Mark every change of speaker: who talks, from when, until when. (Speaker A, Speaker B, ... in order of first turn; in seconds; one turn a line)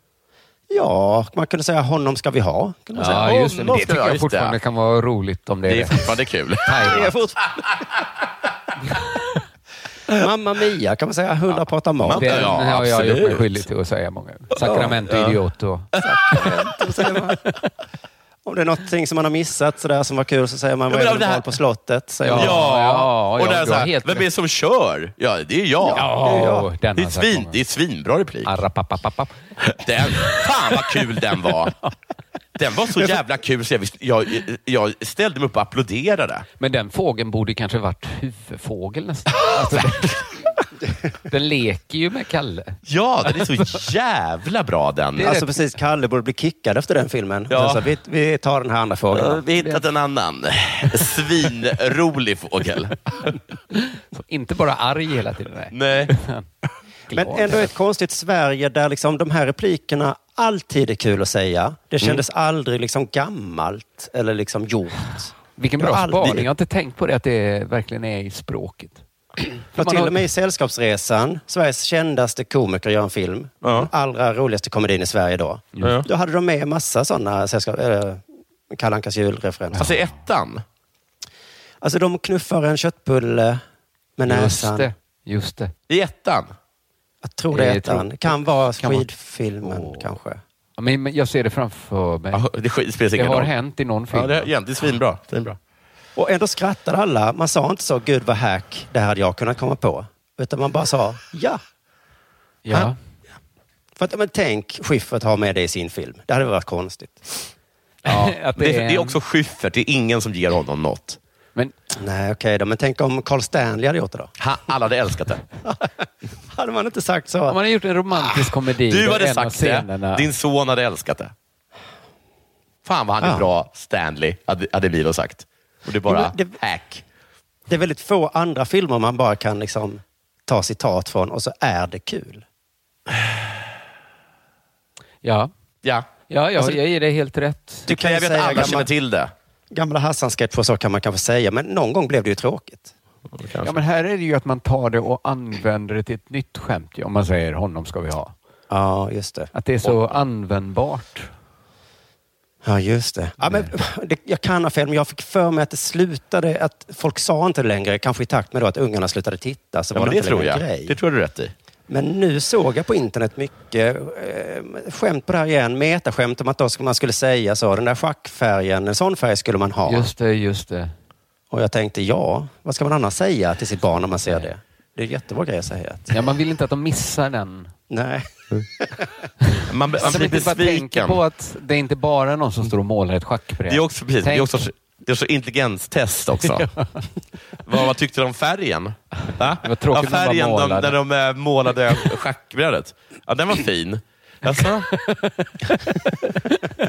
Speaker A: 0.7-3.3
Speaker B: 3.0-7.1
Speaker C: 3.0-4.6
Speaker C: 5.7-7.1
Speaker A: 6.8-7.8
Speaker A: 10.1-12.6
Speaker C: 12.0-13.6
Speaker B: 12.2-16.5
Speaker C: 14.6-15.4
Speaker C: 16.0-16.4
Speaker A: 16.0-17.4
Speaker A: 18.4-22.6
Speaker C: 20.9-21.6
Speaker B: 22.2-24.3
Speaker C: 22.3-28.5
Speaker A: 25.8-26.7
Speaker B: 25.9-27.6
Speaker B: 28.5-29.4
Speaker C: 29.6-31.8
Speaker B: 30.1-30.4
Speaker C: 32.6-36.5
Speaker B: 36.6-40.2
Speaker B: 41.3-42.8
Speaker C: 42.9-45.4
Speaker B: 45.2-45.5
Speaker A: 45.2-49.4
Speaker C: 47.5-47.8
Speaker C: 49.1-53.4
Speaker B: 53.8-56.5
Speaker C: 55.7-56.1
Speaker B: 57.1-57.7
Speaker A: 57.1-66.5
Speaker B: 65.6-69.0
Speaker A: 69.7-79.9
Speaker B: 69.8-70.2
Speaker C: 73.6-73.9
Speaker C: 75.8-76.1
Speaker C: 79.8-80.6
Speaker A: 81.8-83.6
Speaker A: 84.2-84.9
Speaker B: 84.2-85.7
Speaker C: 85.9-86.5
Speaker A: 87.2-90.4
Speaker B: 87.5-89.1
Speaker B: 89.6-90.1
Speaker B: 90.8-92.4
Speaker C: 92.3-93.5
Speaker B: 93.2-94.5
Speaker C: 94.1-95.6
Speaker A: 96.2-101.6
Speaker B: 102.7-103.0
Speaker A: 104.0-107.5
Speaker B: 108.0-109.2
Speaker C: 108.1-111.2
Speaker A: 112.0-114.3
Speaker C: 114.4-115.4
Speaker A: 115.7-117.6
Speaker B: 117.5-120.3
Speaker C: 118.2-121.3
Speaker C: 122.8-127.0
Speaker A: 123.2-123.5
Speaker A: 126.0-126.6
Speaker A: 127.7-132.4
Speaker B: 135.2-135.5
Speaker B: 136.3-137.9
Speaker A: 137.9-138.9
Speaker C: 137.9-139.3
Speaker A: 139.7-142.9
Speaker C: 143.4-143.8
Speaker B: 143.6-148.3
Speaker A: 148.7-149.5
Speaker B: 149.5-151.3
Speaker A: 152.6-160.9
Speaker C: 159.9-161.5
Speaker A: 161.9-170.1
Speaker B: 169.9-170.9
Speaker A: 171.5-176.2
Speaker B: 176.1-177.7
Speaker A: 177.9-179.1
Speaker B: 179.5-184.7
Speaker C: 179.7-181.2
Speaker C: 183.7-186.7
Speaker B: 186.6-186.9
Speaker C: 187.7-194.9
Speaker B: 189.6-190.9
Speaker B: 194.9-195.8